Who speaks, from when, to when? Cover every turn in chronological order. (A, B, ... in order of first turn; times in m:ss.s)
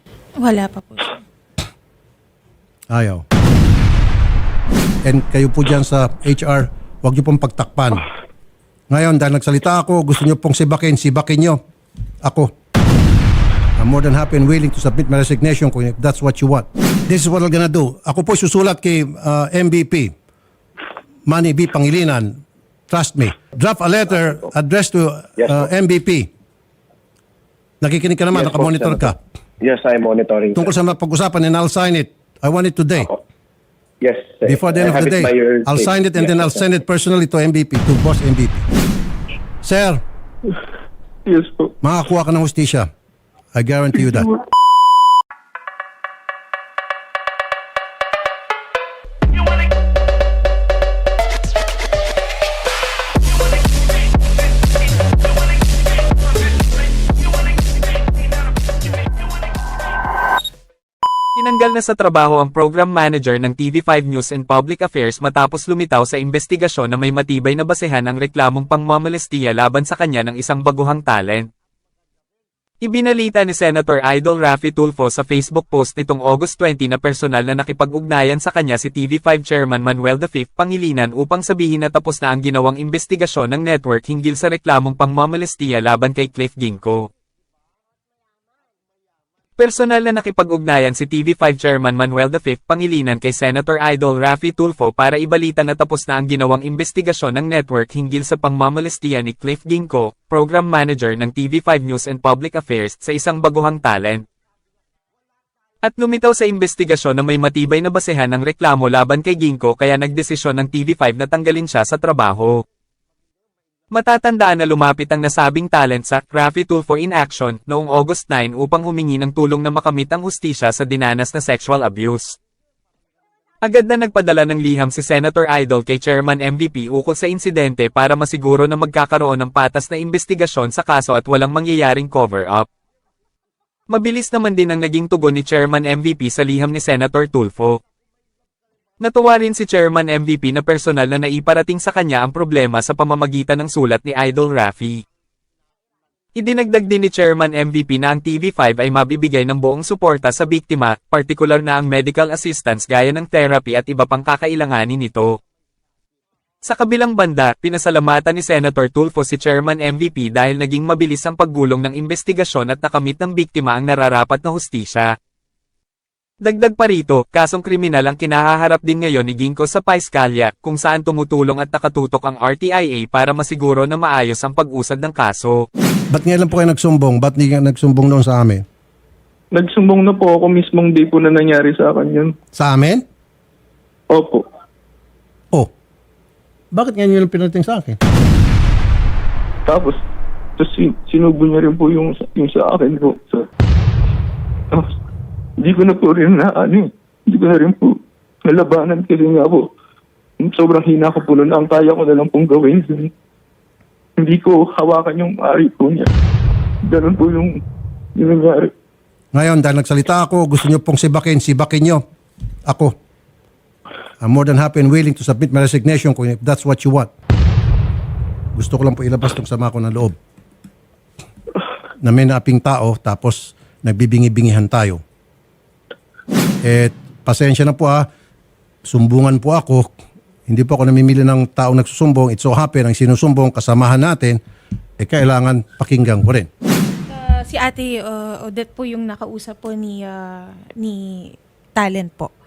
0:00.4-0:01.1 A
0:02.9-0:03.2 B
0:05.0-0:08.0 B
0:08.9-0:11.6 B
0:12.2-0:12.5 B
0:13.8-0:20.1 B
0:21.3-0:22.4 B
0:22.9-0:26.3 B
0:25.4-0:25.6 C
0:27.8-0:29.2 B
0:28.3-0:30.7 C
0:30.5-0:33.1 B
0:34.0-0:36.6 C
0:34.4-0:38.6 B
0:39.6-0:40.0 B
0:41.2-0:41.7 D
0:41.8-0:42.9 B
0:43.5-0:44.3 B
1:01.4-1:11.5 E
1:12.8-1:27.1 E
1:29.6-1:44.2 E
1:45.8-1:52.6 E
1:53.9-2:02.4 E
2:03.6-2:12.7 E
2:13.9-2:17.8 E
2:19.0-2:25.0 E
2:26.4-2:35.3 E
2:36.6-2:45.1 E
2:46.4-2:55.7 E
2:56.1-2:58.6 B
2:59.5-3:02.3 D
3:02.6-3:03.0 B
3:04.1-3:04.4 D
3:06.7-3:08.0 B
3:09.6-3:10.0 D
3:10.6-3:13.4 D
3:15.6-3:19.7 D
3:20.4-3:23.1 D
3:24.2-3:26.1 D
3:26.8-3:27.6 D
3:28.1-3:28.7 D
3:29.3-3:32.0 B
3:32.6-3:32.9 B
3:34.2-3:37.1 B
3:38.5-3:40.2 B
3:42.0-3:45.0 B
3:46.6-3:48.0 B
3:48.8-3:49.9 B
3:50.5-3:54.4 B
3:55.0-3:56.5 B
3:57.1-4:02.3 A